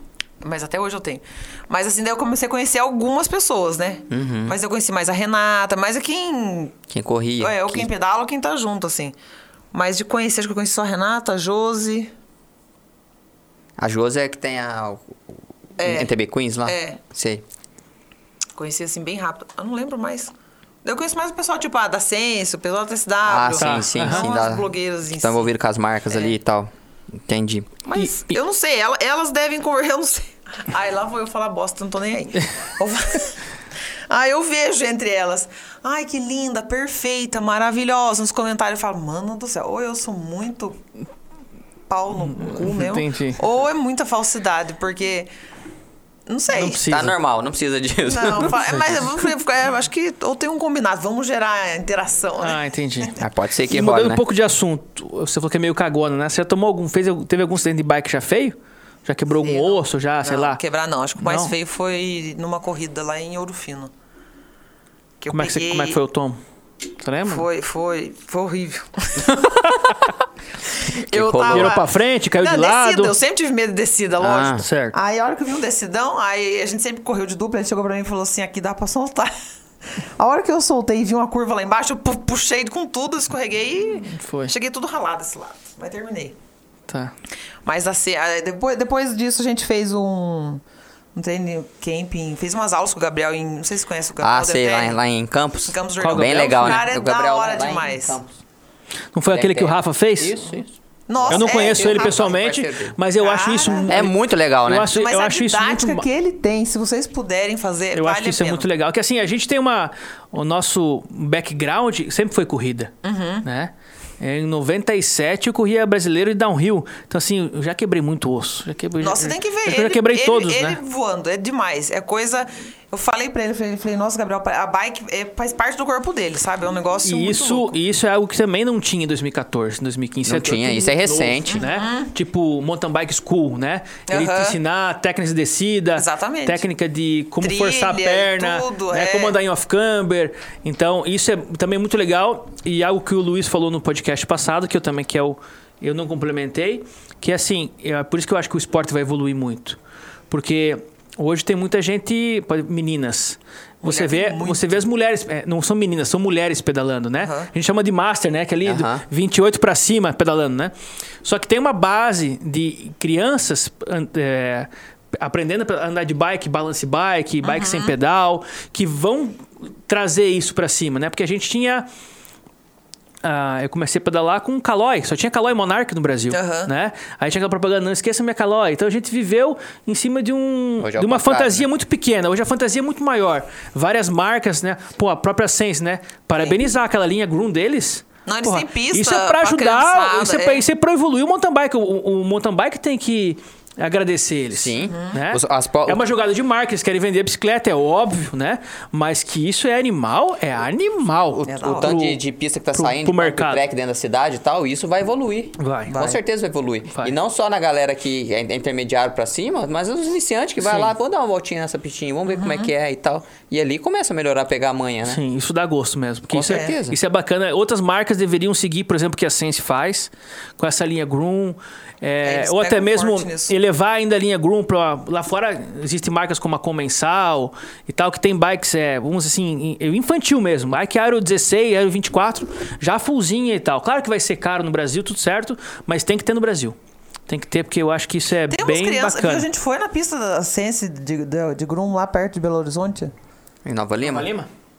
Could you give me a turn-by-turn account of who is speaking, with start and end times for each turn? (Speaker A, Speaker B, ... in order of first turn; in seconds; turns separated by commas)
Speaker A: 0.4-6.8, Speaker B: 4.1-4.5, Speaker B: 6.9-7.9, Speaker A: 7.4-9.2, Speaker A: 9.7-12.1, Speaker B: 13.8-15.2, Speaker A: 15.8-16.1, Speaker B: 15.8-17.4, Speaker A: 16.6-17.0, Speaker A: 18.6-20.3, Speaker A: 20.8-25.5, Speaker B: 23.2-27.8, Speaker C: 23.6-24.2, Speaker A: 27.9-33.4, Speaker C: 28.0-28.4, Speaker A: 34.1-40.8, Speaker A: 41.9-45.3, Speaker C: 42.2-43.4, Speaker A: 46.3-46.8, Speaker C: 46.5-47.1, Speaker B: 46.9-48.8, Speaker A: 48.1-52.6, Speaker C: 52.4-53.1, Speaker B: 53.2-54.2, Speaker C: 53.7-60.6, Speaker A: 59.4-63.9, Speaker C: 61.2-61.5, Speaker A: 65.2-66.0, Speaker C: 65.3-66.4, Speaker C: 67.0-67.5, Speaker A: 67.3-69.8, Speaker A: 70.9-71.9, Speaker B: 71.1-71.8, Speaker C: 71.5-73.2, Speaker A: 72.4-79.3, Speaker B: 74.2-74.7, Speaker C: 74.6-75.0, Speaker A: 80.0-86.4, Speaker C: 84.0-84.5, Speaker C: 86.9-87.1, Speaker A: 87.7-90.6, Speaker A: 91.2-95.0, Speaker B: 94.2-98.4, Speaker A: 95.7-98.2, Speaker C: 96.0-96.8, Speaker C: 99.1-100.4, Speaker B: 99.3-103.0, Speaker A: 101.1-102.4, Speaker C: 101.3-106.0, Speaker A: 103.2-103.9, Speaker B: 103.9-104.9, Speaker A: 104.9-108.7, Speaker C: 107.9-112.9, Speaker A: 113.0-113.5, Speaker C: 113.5-120.8, Speaker A: 119.0-127.8, Speaker C: 127.0-149.8, Speaker B: 130.2-131.6, Speaker A: 131.5-132.1, Speaker A: 134.1-134.6, Speaker A: 135.9-136.7, Speaker A: 137.4-139.3, Speaker C: 150.3-160.7, Speaker A: 153.8-154.8, Speaker A: 157.2-157.5, Speaker B: 158.6-159.0, Speaker C: 161.2-164.7, Speaker C: 165.2-171.9, Speaker A: 167.4-167.9, Speaker C: 173.2-203.6, Speaker A: 176.3-176.7, Speaker B: 180.8-181.7, Speaker A: 188.3-190.7, Speaker B: 194.5-196.1, Speaker B: 201.4-215.2, Speaker A: 201.5-202.0, Speaker C: 205.6-205.9, Speaker A: 205.9-206.2, Speaker C: 210.6-210.9, Speaker A: 212.3-212.7, Speaker C: 215.1-236.8, Speaker B: 216.3-217.0, Speaker A: 216.5-216.8, Speaker A: 222.2-223.6, Speaker C: 237.3-239.5, Speaker A: 238.5-243.1, Speaker B: 243.7-244.3, Speaker C: 244.0-244.5